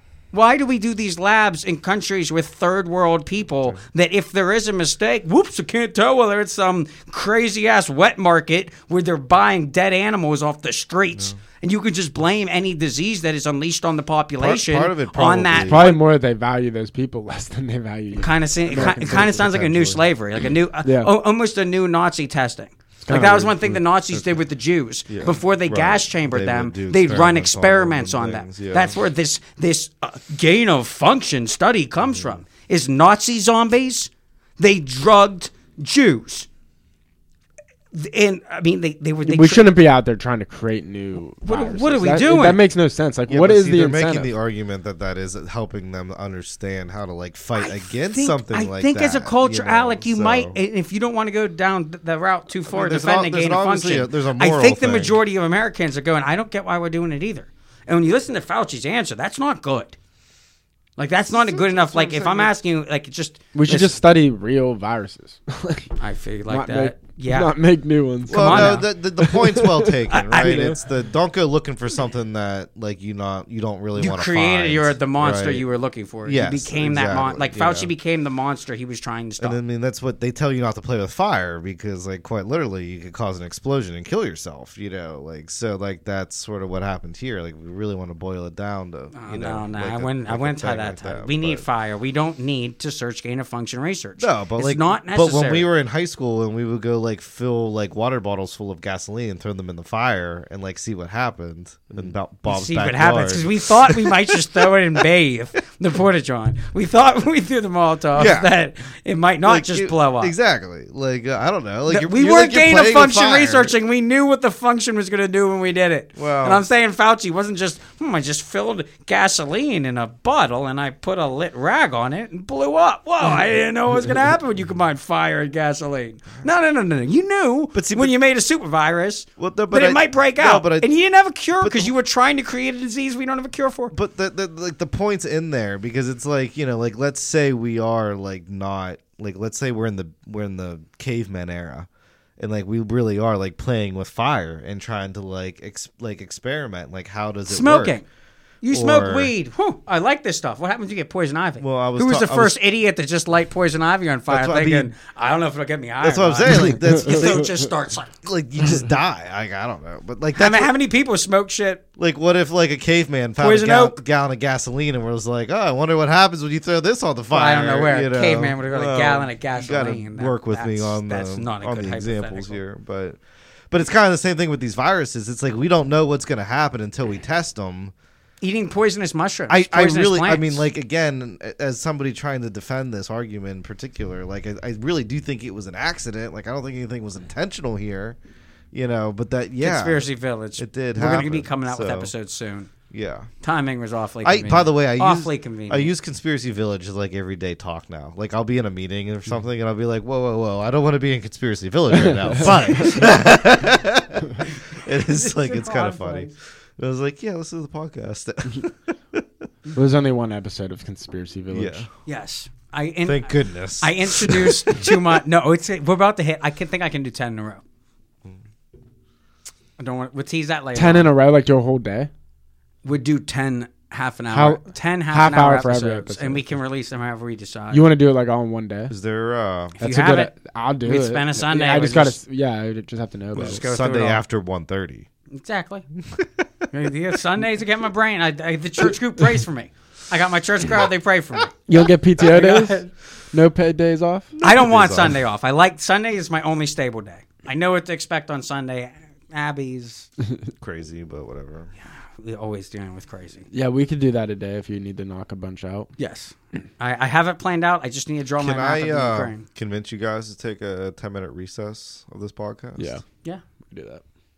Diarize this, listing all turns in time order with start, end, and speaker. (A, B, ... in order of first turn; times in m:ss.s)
0:00.3-0:16.0 A
0:11.1-0:11.4 B
0:14.4-0:16.0 B
0:15.6-0:20.0 C
0:18.2-0:36.5 A
0:20.8-0:21.1 C
0:23.0-0:23.8 C
0:24.1-0:24.4 B
0:25.1-0:29.0 B
0:32.0-0:32.4 B
0:37.9-0:39.7 A
0:39.2-0:44.3 C
0:41.4-0:42.6 A
0:43.3-0:50.6 B
0:47.6-1:00.0 A
0:52.7-0:55.2 B
1:01.0-1:04.0 A
1:01.3-1:02.6 B
1:03.5-1:05.9 C
1:06.0-1:07.6 A
1:06.5-1:10.0 C
1:08.3-1:08.9 A
1:08.3-1:15.6 B
1:10.1-1:10.8 A
1:14.0-1:19.6 A
1:16.2-1:17.9 B
1:19.4-1:31.6 B
1:29.1-1:35.7 A
1:34.2-1:45.0 B
1:42.5-1:50.3 A
1:48.2-1:48.5 B
1:49.4-1:53.7 B
1:51.9-2:13.9 A
1:56.2-1:56.6 B
2:07.7-2:08.1 B
2:09.4-2:10.9 B
2:11.6-2:11.9 B
2:13.9-2:28.0 B
2:27.5-2:28.1 A
2:28.6-2:38.1 A
2:28.7-2:29.3 B
2:31.6-2:32.6 B
2:34.3-2:34.9 B
2:36.0-2:37.6 B
2:36.9-2:37.4 C
2:38.2-2:40.7 B
2:40.4-2:41.8 A
2:42.0-2:53.2 B
2:43.4-2:44.0 A
2:47.3-2:52.6 A
2:53.7-2:57.9 B
2:58.4-3:00.6 A
2:59.5-3:08.2 B
3:08.7-3:12.1 B
3:09.6-3:12.7 A
3:12.9-3:13.3 B
3:13.4-3:15.9 A
3:14.2-3:29.2 B
3:22.0-3:22.3 C
3:22.8-3:23.1 A
3:24.4-3:26.3 A
3:29.7-3:31.9 C
3:31.5-3:31.9 B
3:32.1-3:37.6 A
3:33.0-3:35.2 B
3:39.8-3:41.1 A
3:40.8-3:42.1 C
3:42.8-3:47.9 A
3:44.3-3:46.5 C
3:47.7-3:48.9 C
3:48.9-3:49.8 B
3:49.8-3:52.2 A
3:49.8-3:53.6 C
3:53.3-3:55.1 B
3:53.4-3:54.2 A
3:55.3-3:55.9 A
3:56.7-4:01.5 A
4:01.7-4:04.3 C
4:02.2-4:02.9 A
4:04.4-4:05.2 B
4:04.4-4:10.1 A
4:10.6-4:11.7 B
4:12.0-4:13.5 A
4:13.5-4:15.9 C
4:16.0-4:19.4 A
4:18.4-4:23.0 B
4:22.8-4:23.0 C
4:23.7-4:24.0 C